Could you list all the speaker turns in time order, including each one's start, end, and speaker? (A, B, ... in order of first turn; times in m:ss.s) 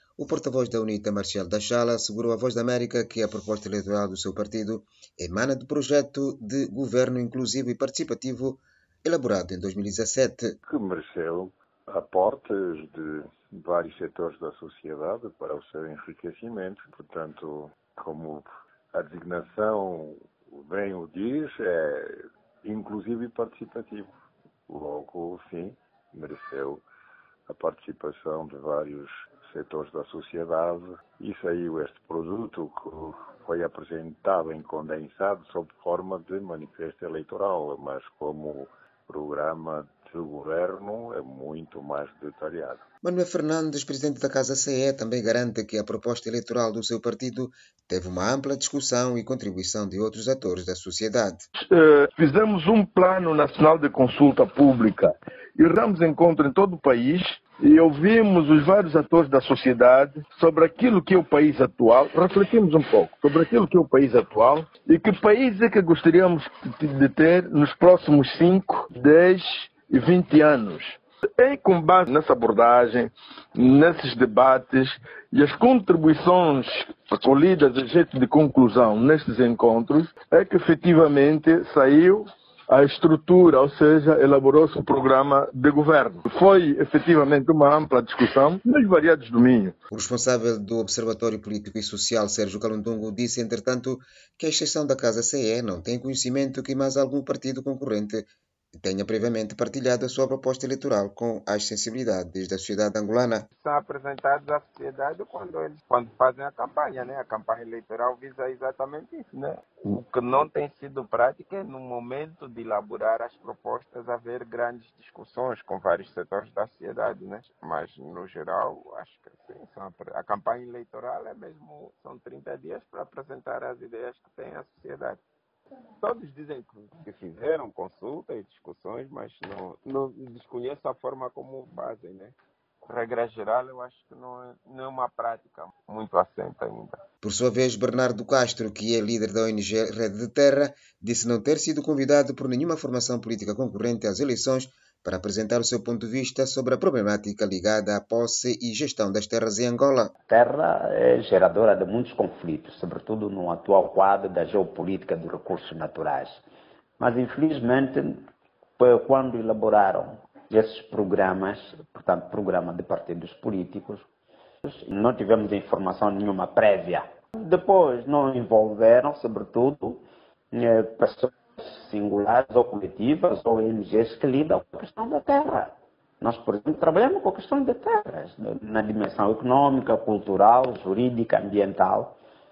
0:00.2-0:10.6 A
0:10.7-0:24.1 B
0:24.7-0:26.8 B
0:27.5-0:42.8 B
0:43.0-0:51.4 A
0:51.7-1:29.8 C
1:29.9-1:38.3 A
1:38.8-1:43.5 A
1:43.5-2:05.2 D
2:06.0-2:12.4 D
2:12.9-2:17.0 D
2:17.2-2:30.1 A
2:30.3-2:36.4 E
2:37.0-2:38.2 E
2:38.8-2:44.1 E
2:44.6-3:02.2 E